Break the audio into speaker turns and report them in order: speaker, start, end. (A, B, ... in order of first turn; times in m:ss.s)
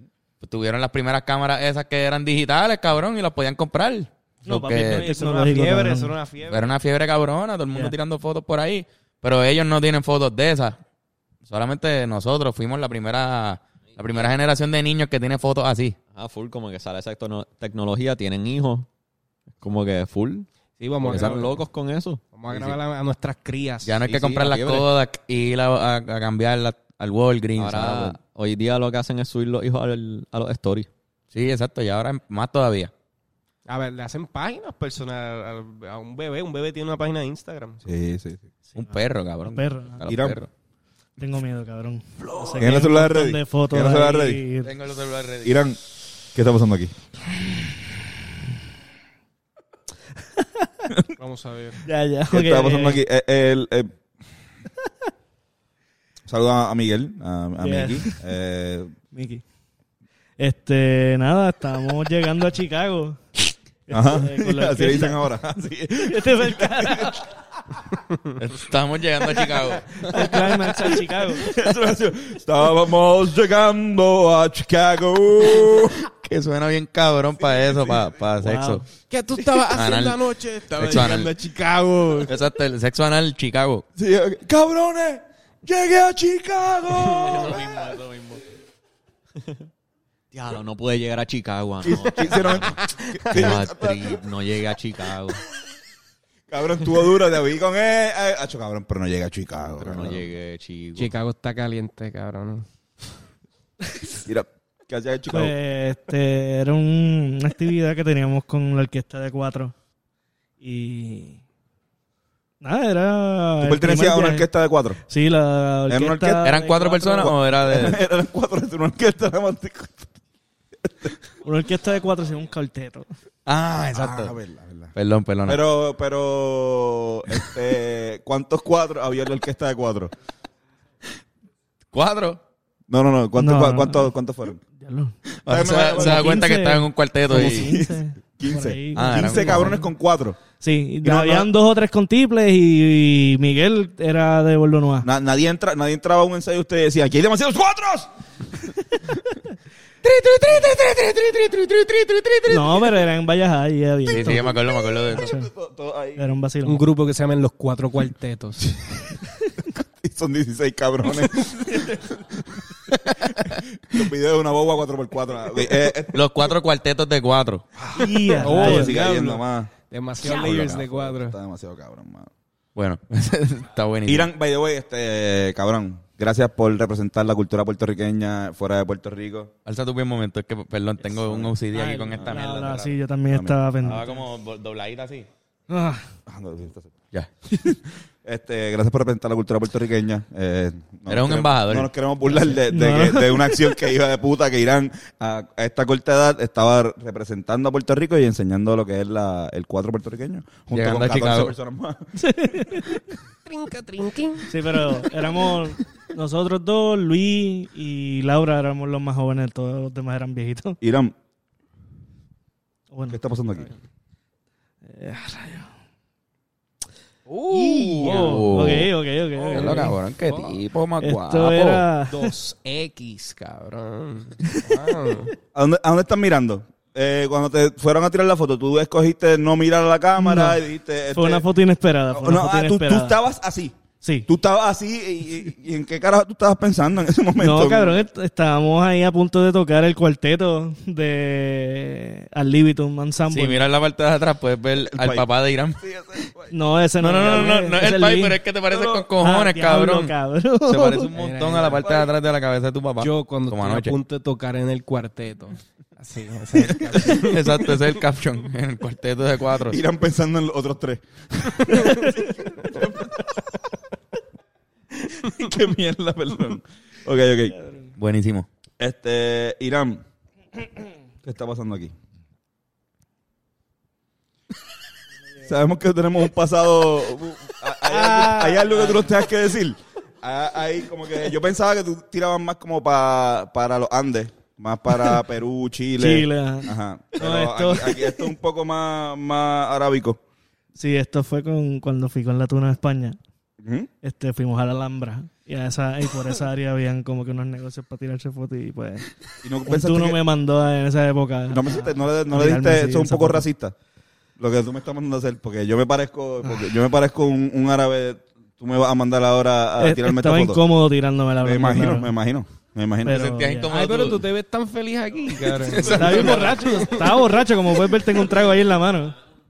0:00.4-0:05.1 A
0:04.4-0:06.2 B
0:05.0-0:06.6 C
0:06.5-0:10.8 A
0:11.5-0:16.0 A
0:16.1-0:18.9 D
0:19.6-0:20.5 D
0:20.8-0:21.6 C
0:21.0-0:22.8 D
0:21.1-0:21.4 A
0:22.3-0:24.0 C
0:23.8-0:28.2 A
0:24.1-0:24.9 D
0:27.6-0:30.9 D
0:31.3-0:32.9 A
0:33.7-0:37.9 C
0:37.8-0:38.5 E
0:38.8-0:40.5 A
0:39.4-0:40.0 B
0:40.1-0:40.4 E
0:41.2-0:44.7 B
0:42.6-0:44.4 E
0:44.6-0:45.6 A
0:45.4-0:45.8 E
0:46.3-0:46.9 E
0:50.4-0:50.9 B
0:51.2-0:51.8 C
0:51.8-0:53.0 B
0:52.3-0:53.9 E
0:56.3-0:58.9 E
0:57.6-0:58.2 B
0:59.1-0:59.4 B
1:00.4-1:05.2 B
1:03.9-1:07.2 E
1:06.0-1:07.2 B
1:08.4-1:10.1 A
1:10.0-1:11.5 B
1:11.4-1:16.0 E
1:16.1-1:18.9 A
1:18.4-1:18.8 B
1:19.1-1:22.3 C
1:19.7-1:21.3 A
1:22.3-1:23.8 A
1:24.0-1:27.7 E
1:27.2-1:28.4 D
1:30.3-1:32.8 D
1:31.8-1:34.1 E
1:32.0-1:33.6 C
1:33.3-1:35.4 D
1:36.5-1:40.2 E
1:39.7-1:41.1 D
1:41.0-1:42.7 C
1:44.3-1:45.5 E
1:45.3-1:49.7 B
1:50.6-1:51.4 B
1:52.6-1:54.5 B
1:53.6-1:55.0 E
1:55.1-1:57.4 B
1:55.9-1:56.5 E
1:56.4-1:58.0 A
1:57.2-2:00.1 E
2:00.8-2:01.1 E
2:01.4-2:03.1 B
2:03.5-2:04.9 E
2:03.5-2:04.4 A
2:05.0-2:05.6 A
2:05.5-2:10.1 E
2:11.9-2:12.4 A
2:12.9-2:14.6 E
2:13.4-2:14.1 B
2:14.7-2:15.2 B
2:15.4-2:17.8 A
2:15.5-2:16.5 E
2:15.8-2:19.9 B
2:17.3-2:20.4 E
2:19.0-2:19.8 A
2:20.6-2:25.1 B
2:21.0-2:21.5 E
2:25.0-2:28.1 E
2:30.0-2:32.3 E
2:30.5-2:32.3 A
2:32.5-2:35.5 B
2:34.1-2:35.3 A
2:35.2-2:36.2 E
2:36.2-2:36.8 B
2:36.6-2:38.8 C
2:39.7-2:46.5 E
2:46.1-2:47.7 A
2:47.8-2:52.3 E
2:47.9-2:49.0 B
2:48.4-2:51.4 C
2:52.8-2:54.3 A
2:54.1-2:59.5 E
2:59.7-3:03.0 A
3:01.2-3:01.6 E
3:01.7-3:04.3 B
3:03.3-3:03.6 E
3:03.8-3:05.3 A
3:05.7-3:06.1 B
3:06.3-3:07.0 E
3:08.2-3:22.8 E
3:11.1-3:11.9 A
3:12.3-3:13.7 B
3:20.7-3:21.5 A
3:22.2-3:23.0 B
3:23.5-3:24.8 C
3:24.5-3:30.8 B
3:30.8-3:31.1 E
3:32.9-3:33.7 B
3:33.1-3:33.8 E
3:34.9-3:35.7 B
3:37.3-3:38.4 C
3:37.5-3:40.0 B
3:37.6-3:38.9 A
3:39.4-3:40.6 C
3:39.5-3:41.9 A
3:41.0-3:42.3 B
3:42.1-3:45.3 C
3:44.4-3:45.2 B
3:45.5-3:51.4 E
3:50.2-3:50.6 B
3:51.1-3:53.2 B
3:52.1-3:58.0 E
3:54.0-3:54.3 B
3:57.4-4:03.7 B
4:03.3-4:05.8 A
4:04.8-4:05.3 E
4:05.8-4:06.5 E
4:06.5-4:08.4 B
4:07.0-4:10.1 A
4:08.7-4:09.1 E
4:09.2-4:11.1 B
4:10.7-4:14.0 A
4:11.2-4:12.1 C
4:13.0-4:17.8 C
4:17.0-4:19.8 A
4:19.6-4:22.1 E
4:21.6-4:22.1 C
4:21.8-4:22.4 B
4:25.1-4:25.5 C
4:25.3-4:27.6 E
4:28.0-4:28.5 A
4:28.8-4:30.0 E
4:31.2-4:31.9 E
4:35.4-4:50.2 E
4:37.8-4:39.0 B
4:46.0-4:48.3 B
4:50.8-4:53.2 B
4:53.6-4:53.9 E
4:54.0-4:59.1 B
4:59.4-5:00.2 E
4:59.7-5:03.4 B
5:01.5-5:03.8 E
5:04.4-5:10.6 E
5:09.8-5:12.1 B
5:11.4-5:13.3 E
5:13.0-5:13.7 B
5:13.1-5:14.3 A
5:13.7-5:16.9 C
5:15.6-5:16.6 A
5:15.9-5:19.2 B